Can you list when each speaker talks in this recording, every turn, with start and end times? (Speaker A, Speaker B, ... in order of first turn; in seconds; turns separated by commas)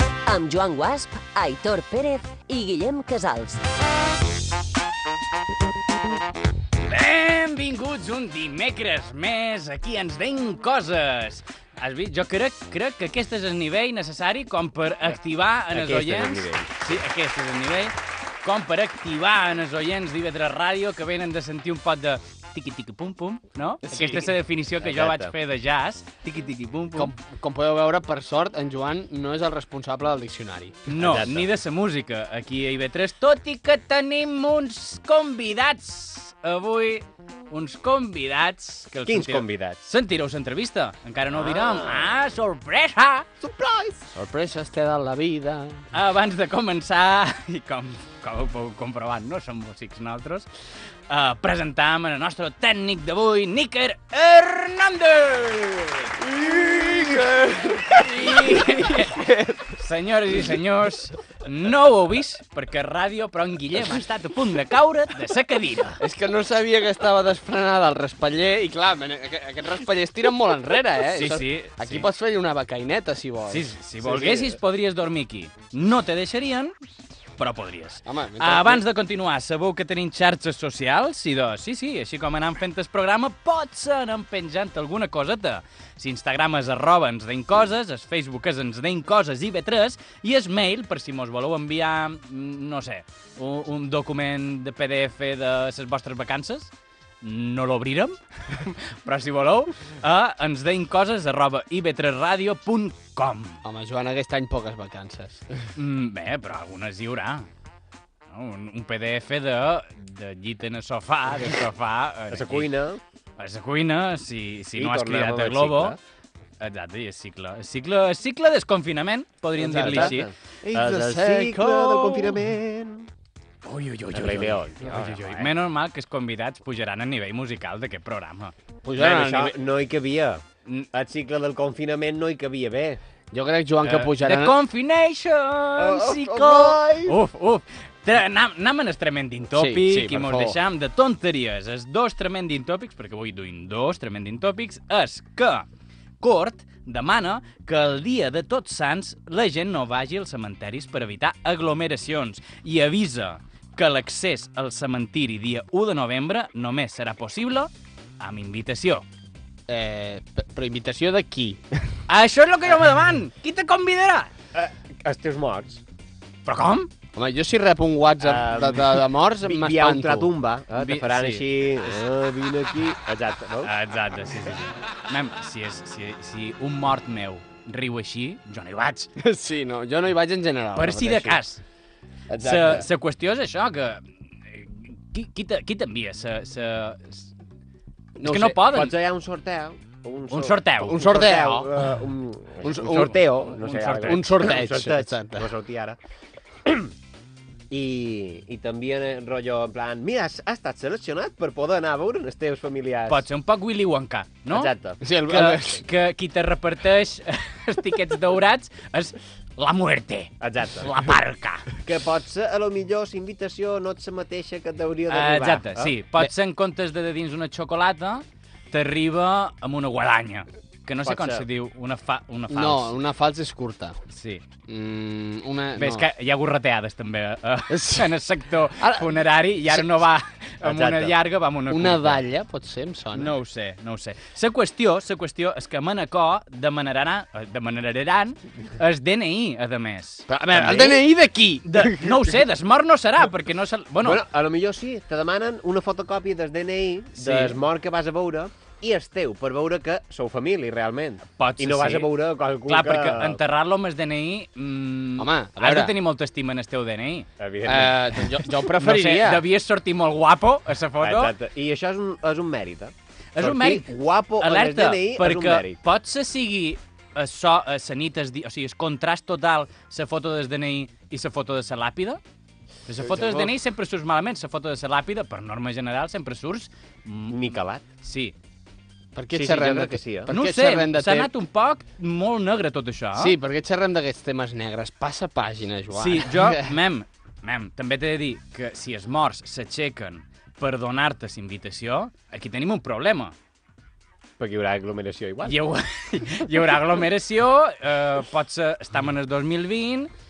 Speaker A: 0.2-3.6, Speaker B: 6.8-27.1, Speaker C: 15.7-16.9, Speaker D: 23.9-24.3, Speaker C: 24.8-25.3, Speaker D: 26.9-30.9, Speaker B: 30.9-43.3, Speaker C: 30.9-31.5, Speaker C: 39.1-39.8, Speaker C: 41.3-42.2, Speaker C: 43.4-44.0, Speaker D: 44.1-45.9, Speaker B: 45.9-50.5, Speaker B: 51.1-57.3, Speaker D: 56.2-59.7, Speaker B: 57.9-59.2, Speaker B: 59.7-66.0, Speaker D: 66.0-74.6, Speaker B: 71.0-72.1, Speaker B: 73.5-76.7, Speaker B: 77.4-103.6, Speaker D: 78.1-78.8, Speaker D: 103.6-105.7, Speaker B: 105.8-107.5, Speaker B: 108.3-112.7, Speaker C: 112.3-113.0, Speaker B: 113.4-116.0, Speaker C: 114.8-116.0, Speaker B: 116.6-120.3, Speaker D: 119.6-122.3, Speaker C: 119.7-123.1, Speaker B: 123.6-128.5, Speaker C: 124.1-125.5, Speaker D: 128.8-129.5, Speaker C: 129.0-133.0, Speaker D: 133.3-134.6, Speaker B: 133.8-145.7, Speaker C: 135.8-137.2, Speaker D: 139.5-140.6, Speaker B: 146.2-159.1, Speaker D: 159.7-162.0, Speaker B: 162.1-164.3, Speaker C: 164.5-165.8, Speaker B: 166.5-166.9, Speaker D: 167.2-170.3, Speaker C: 168.2-173.7, Speaker B: 170.8-171.4, Speaker B: 173.6-179.1, Speaker D: 179.2-181.4, Speaker B: 180.7-181.6, Speaker C: 182.3-182.9, Speaker B: 182.4-187.3, Speaker D: 188.2-188.7, Speaker B: 188.2-188.9, Speaker C: 188.7-196.0, Speaker B: 190.3-191.1, Speaker D: 190.9-191.7, Speaker D: 192.6-193.1, Speaker B: 192.7-194.5, Speaker D: 194.1-195.5, Speaker C: 196.7-196.9, Speaker C: 197.7-203.3, Speaker B: 203.1-204.7, Speaker C: 204.5-205.0, Speaker D: 205.0-205.8, Speaker B: 205.3-211.7, Speaker C: 210.4-210.9, Speaker C: 211.8-215.9, Speaker B: 215.1-223.0, Speaker C: 221.0-221.5, Speaker D: 222.5-224.0, Speaker B: 224.1-224.4, Speaker D: 224.7-226.1, Speaker B: 225.8-232.2, Speaker D: 227.7-228.2, Speaker D: 228.8-229.2, Speaker C: 230.6-231.2, Speaker D: 231.7-233.3, Speaker B: 233.1-240.9, Speaker D: 240.3-242.3, Speaker C: 240.6-241.0, Speaker B: 241.7-244.2, Speaker C: 244.0-253.4, Speaker B: 251.4-252.1, Speaker B: 252.7-257.3, Speaker D: 255.2-255.9, Speaker C: 257.4-258.1, Speaker D: 257.6-259.5, Speaker B: 258.7-261.3, Speaker C: 261.0-265.8, Speaker B: 263.4-272.2, Speaker B: 272.9-278.4, Speaker C: 273.0-273.5, Speaker C: 277.3-277.8, Speaker D: 279.1-281.3, Speaker C: 279.3-280.3, Speaker B: 280.3-283.4, Speaker D: 283.1-286.8, Speaker B: 285.9-293.4, Speaker C: 294.4-295.7, Speaker B: 295.4-300.1